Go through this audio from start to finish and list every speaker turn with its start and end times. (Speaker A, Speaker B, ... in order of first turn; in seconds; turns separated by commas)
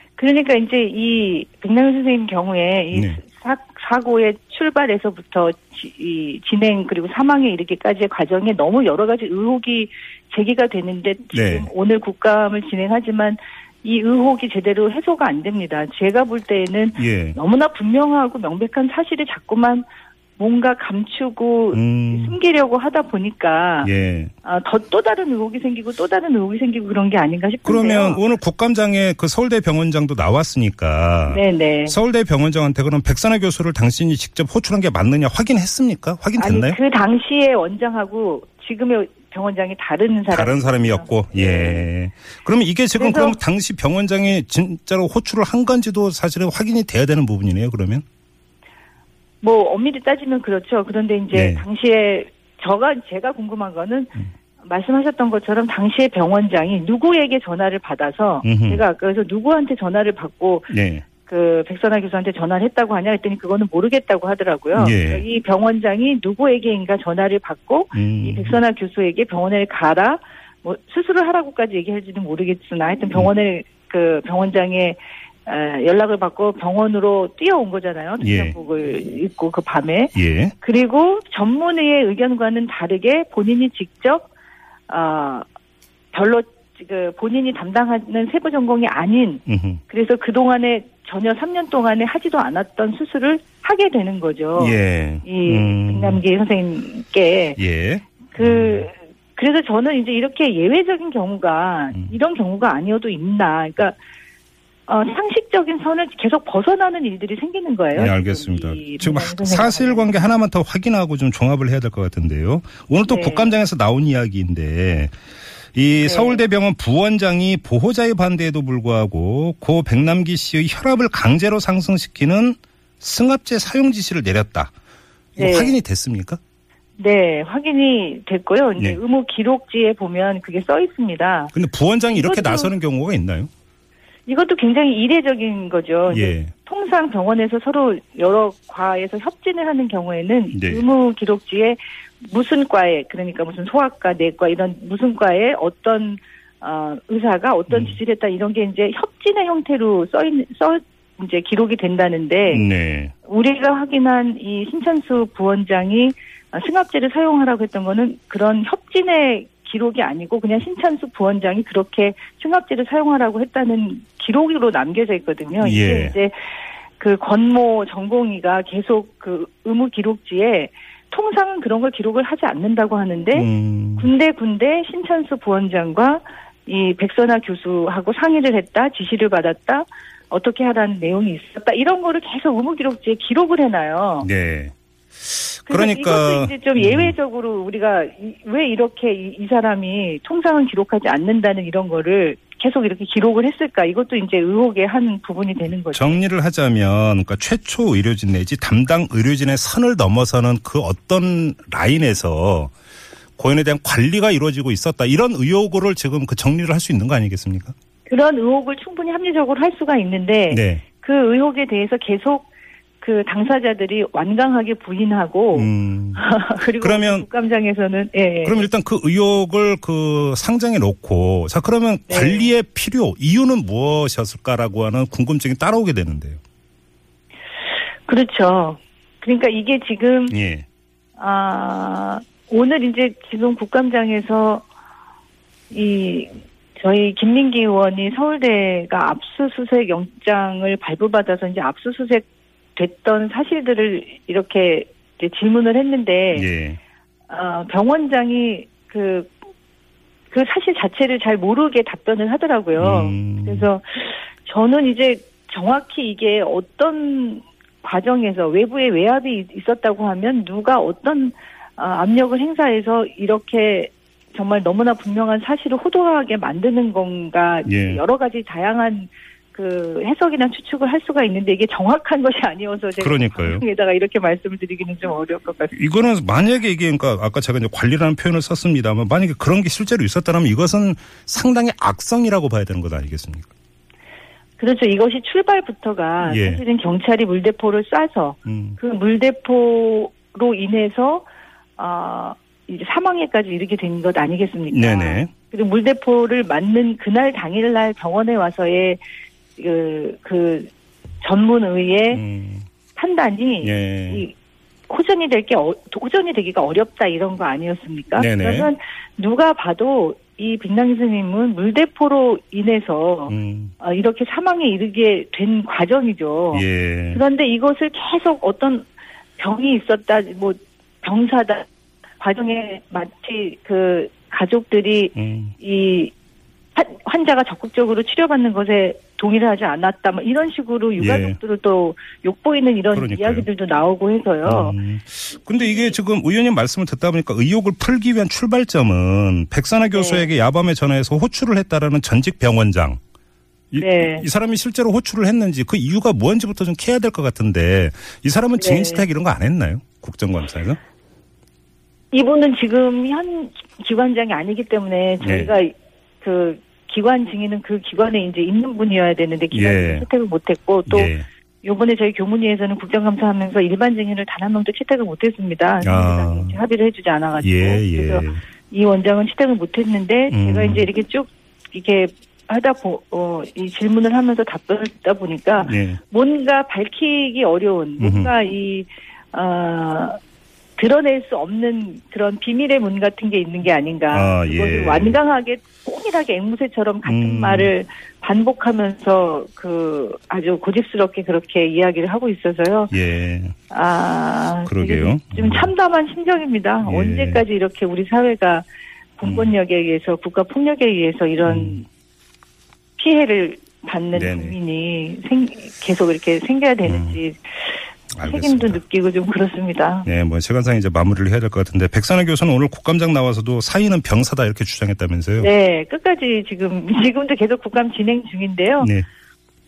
Speaker A: 0.2-19.9, Speaker B: 2.9-3.2, Speaker B: 11.3-11.7, Speaker B: 17.0-17.4, Speaker A: 20.4-23.9, Speaker B: 21.7-22.4, Speaker B: 23.8-24.3, Speaker A: 24.4-28.2, Speaker B: 27.6-36.8, Speaker A: 31.3-32.0, Speaker A: 36.4-41.9, Speaker B: 40.3-48.0, Speaker A: 43.0-43.4, Speaker A: 49.4-84.3, Speaker B: 51.3-51.6, Speaker B: 58.4-58.8, Speaker B: 60.7-61.1, Speaker B: 64.8-65.2, Speaker B: 67.9-68.6, Speaker B: 78.2-78.5, Speaker B: 80.2-80.5, Speaker A: 84.9-85.5, Speaker A: 86.1-97.6, Speaker B: 89.5-89.8, Speaker B: 94.6-96.2, Speaker B: 97.6-98.9, Speaker A: 98.3-104.0, Speaker A: 104.9-110.4, Speaker B: 107.9-115.2, Speaker A: 113.1-113.5, Speaker B: 115.7-124.7, Speaker A: 116.0-116.4, Speaker B: 125.4-126.4, Speaker A: 125.4-125.8, Speaker A: 127.0-131.5, Speaker B: 131.5-133.5, Speaker A: 132.2-132.7, Speaker A: 134.3-152.7, Speaker B: 136.1-136.5, Speaker B: 140.5-140.8, Speaker B: 147.7-148.0, Speaker B: 152.5-153.1, Speaker A: 153.2-166.5, Speaker B: 165.6-166.2, Speaker A: 167.0-184.3, Speaker B: 173.3-174.1, Speaker B: 184.2-187.1, Speaker A: 185.7-196.2, Speaker B: 195.9-202.7, Speaker B: 203.4-207.7, Speaker A: 208.1-212.5, Speaker B: 210.5-210.8, Speaker A: 213.0-218.7, Speaker B: 215.5-216.2, Speaker B: 216.8-217.3, Speaker B: 218.4-226.4, Speaker A: 222.1-222.5, Speaker A: 228.1-230.4, Speaker B: 230.3-230.7, Speaker A: 231.2-234.7, Speaker A: 235.7-246.5, Speaker B: 246.3-246.8, Speaker A: 247.3-249.3, Speaker A: 250.3-275.7, Speaker B: 252.8-253.7, Speaker B: 267.6-268.0, Speaker B: 273.0-273.6, Speaker B: 275.7-283.5, Speaker A: 284.6-291.3, Speaker B: 286.2-286.6, Speaker B: 288.5-288.8, Speaker A: 291.8-299.0, Speaker B: 294.7-295.3, Speaker A: 299.6-300.7, Speaker A: 301.2-302.2, Speaker B: 302.1-302.7, Speaker A: 302.9-304.3, Speaker B: 303.6-304.2, Speaker A: 304.9-318.9, Speaker B: 308.2-308.7, Speaker B: 313.3-313.7, Speaker B: 316.5-317.2, Speaker A: 319.4-321.7, Speaker A: 322.2-326.1, Speaker B: 325.1-325.5, Speaker A: 326.8-334.8, Speaker B: 331.0-331.4, Speaker B: 332.9-333.5, Speaker B: 334.4-343.0, Speaker A: 335.6-335.9, Speaker A: 339.9-340.3, Speaker B: 343.7-350.8, Speaker A: 343.8-344.2, Speaker A: 348.6-349.1, Speaker A: 352.1-380.2, Speaker B: 355.2-355.6, Speaker B: 359.5-360.1, Speaker B: 360.9-361.3, Speaker B: 365.8-366.6, Speaker B: 367.4-368.4, Speaker B: 370.3-370.9, Speaker B: 375.6-376.0, Speaker B: 378.0-378.3, Speaker A: 380.8-392.9, Speaker B: 384.1-385.2, Speaker B: 387.1-387.7, Speaker B: 392.9-393.5, Speaker A: 393.7-398.7, Speaker B: 394.7-395.7, Speaker B: 396.8-397.4, Speaker A: 399.2-401.9, Speaker B: 399.2-399.5, Speaker B: 401.4-401.8, Speaker A: 403.0-410.1, Speaker B: 404.1-404.6, Speaker B: 406.9-407.2, Speaker B: 408.1-408.8, Speaker B: 410.1-415.5, Speaker A: 415.4-418.9, Speaker B: 418.8-419.1